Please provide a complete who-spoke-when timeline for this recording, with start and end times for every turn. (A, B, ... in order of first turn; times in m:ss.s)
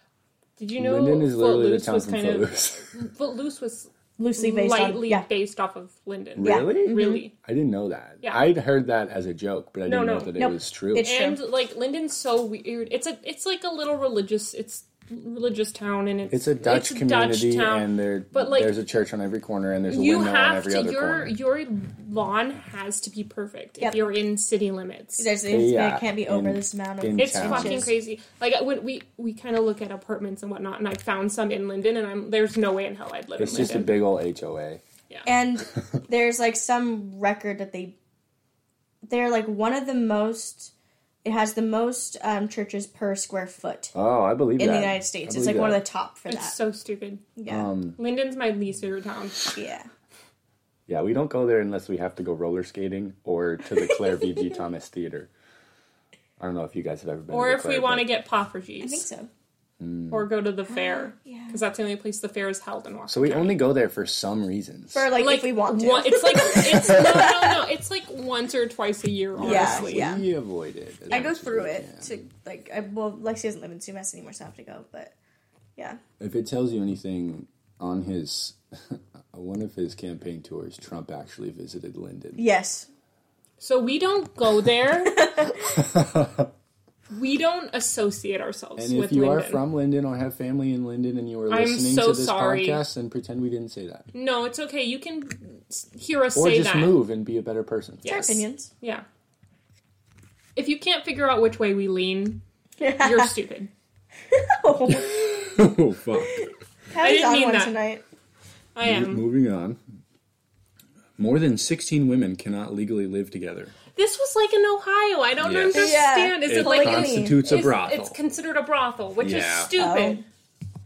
0:00.6-0:07.4 A
0:00.8-0:02.9 B
0:04.2-0:05.3 C
0:06.4-0:11.1 B
0:06.4-0:07.2 C
0:09.9-0:10.3 A
0:10.4-0:11.4 C
0:11.0-0:18.7 A
0:16.3-0:21.3 B
0:19.9-0:25.3 A
0:25.2-0:27.9 C
0:25.5-0:27.9 B
0:27.2-0:34.0 A
0:33.4-0:34.8 B
0:35.2-0:38.0 C
0:39.0-0:40.7 C
0:41.2-0:43.9 C
0:43.9-0:45.8 B
0:44.6-0:46.6 C
0:46.3-0:47.2 A
0:47.4-0:47.7 C
0:47.5-0:48.0 B
0:48.0-0:49.4 A
0:49.5-0:49.9 C
0:50.9-0:55.3 B
0:56.4-0:58.1 B
0:57.3-0:59.0 A
0:58.8-0:59.3 C
0:59.8-1:00.3 B
1:00.1-1:03.6 A
1:00.7-1:01.6 C
1:03.1-1:05.1 B
1:04.9-1:07.6 C
1:05.2-1:10.1 A
1:09.4-1:12.2 B
1:09.4-1:10.2 C
1:11.1-1:15.1 C
1:16.2-1:22.4 B
1:22.4-1:22.9 C
1:23.6-1:25.3 A
1:25.1-1:25.7 C
1:25.7-1:26.5 B
1:27.1-1:29.6 A
1:28.8-1:34.1 B
1:31.5-1:32.8 A
1:34.1-1:37.0 A
1:36.4-1:38.2 B
1:38.0-1:39.1 A
1:38.0-1:38.7 C
1:40.6-1:42.4 A
1:42.8-1:43.3 C
1:43.0-1:43.7 A
1:44.3-1:45.6 C
1:44.9-1:46.5 B
1:46.4-1:48.0 C
1:47.0-1:47.8 A
1:48.8-1:49.2 A
1:48.8-1:49.8 B
1:51.2-1:53.7 B
1:54.0-2:00.2 A
1:55.4-1:58.2 B
1:55.7-1:57.4 C
1:59.2-1:59.7 B
1:59.8-2:00.2 C